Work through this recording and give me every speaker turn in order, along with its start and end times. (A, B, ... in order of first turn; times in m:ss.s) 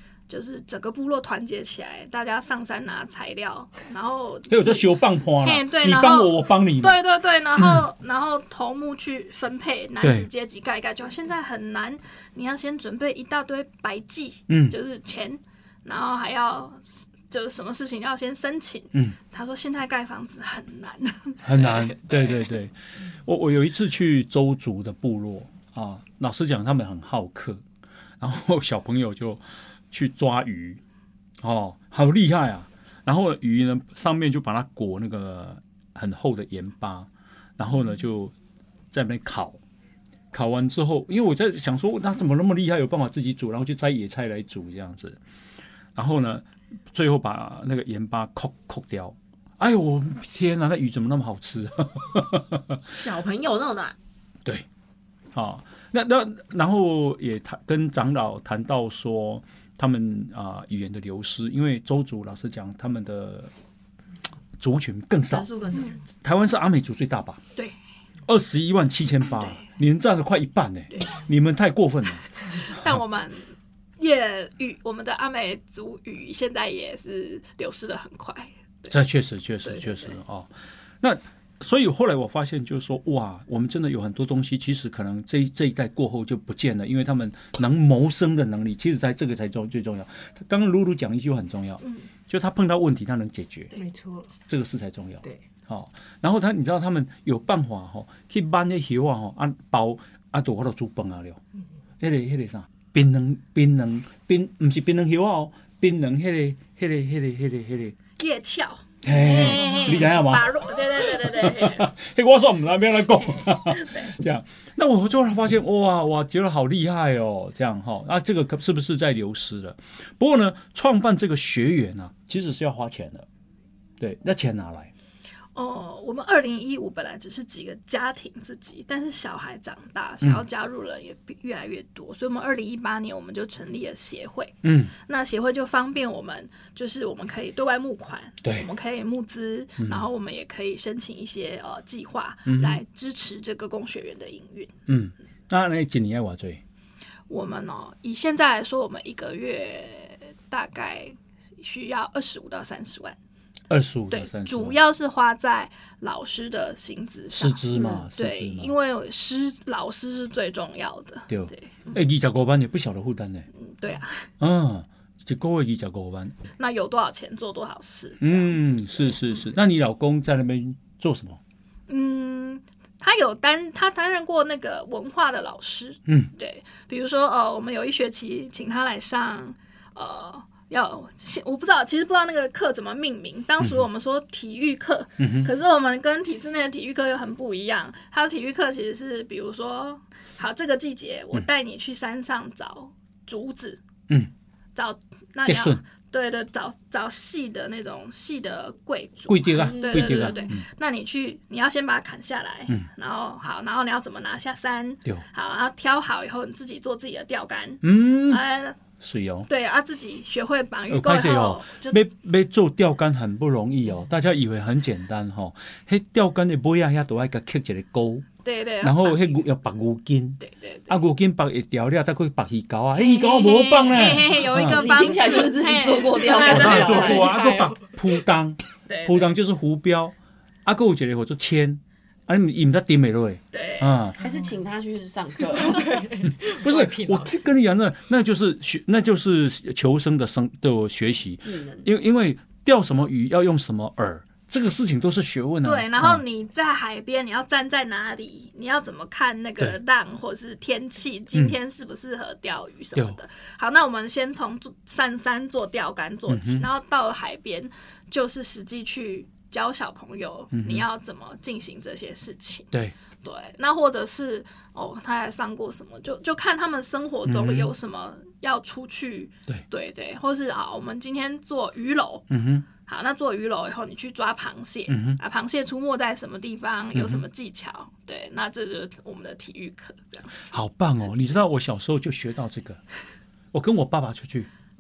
0:00.3-0:22.5 A
0:04.5-0:07.0 B
0:07.6-0:07.8 B
0:10.0-0:10.3 B
0:14.5-0:14.8 B
0:21.4-0:27.6 B
0:28.2-0:30.8 B
0:31.4-0:38.3 B
0:38.9-0:39.6 B
0:40.3-0:45.2 B
0:46.0-0:52.8 B
0:52.9-0:53.9 C
0:55.3-1:03.5 B
1:04.6-1:05.5 B
1:05.3-1:06.0 C
1:06.2-1:07.4 B
1:08.3-1:12.3 B
1:09.3-1:09.6 A
1:10.9-1:11.2 A
1:12.6-1:18.9 A
1:18.9-1:20.5 B
1:19.6-1:20.2 A
1:21.0-1:33.7 B
1:33.7-1:34.3 D
1:34.5-1:41.4 B
1:42.0-1:48.0 B
1:48.2-1:51.9 A
1:49.0-2:03.2 B
1:53.2-1:54.1 A
2:04.0-2:04.9 B
2:05.5-2:24.7 A
2:14.6-2:14.9 B
2:22.5-2:22.8 B
2:24.9-2:26.6 B
2:27.3-2:33.2 A
2:33.7-2:34.8 B
2:34.1-2:42.0 A
2:37.3-2:38.7 B
2:41.3-2:43.5 B
2:43.6-2:44.3 A
2:44.4-2:46.4 B
2:46.6-2:48.6 A
2:48.2-2:51.4 B
2:51.9-3:13.8 A
3:05.2-3:05.5 B
3:14.7-3:28.8 A
3:15.5-3:15.8 B
3:19.3-3:20.6 B
3:19.6-3:20.4 C
3:27.8-3:28.4 B
3:29.0-3:29.5 B
3:29.5-3:32.0 A
3:30.9-3:38.3 B
3:38.4-3:39.4 A
3:38.8-3:44.9 B
3:40.4-3:41.0 A
3:42.9-3:47.2 A
3:44.6-3:47.4 C
3:44.9-3:45.5 D
3:46.4-3:54.2 B
3:46.7-3:47.8 D
3:48.9-3:49.3 A
3:53.5-3:53.9 A
3:54.2-3:55.9 C
3:54.2-3:54.5 D
3:55.5-3:57.5 D
3:56.4-4:06.2 B
4:01.4-4:01.9 C
4:05.6-4:22.7 A
4:16.3-4:16.7 B
4:20.5-4:20.8 B
4:23.2-4:32.3 A
4:27.2-4:27.7 B
4:32.3-4:32.6 B
4:32.8-4:40.5 A
4:34.9-4:35.2 B
4:36.9-4:37.2 B
4:40.5-4:42.8 B
4:43.5-4:44.5 B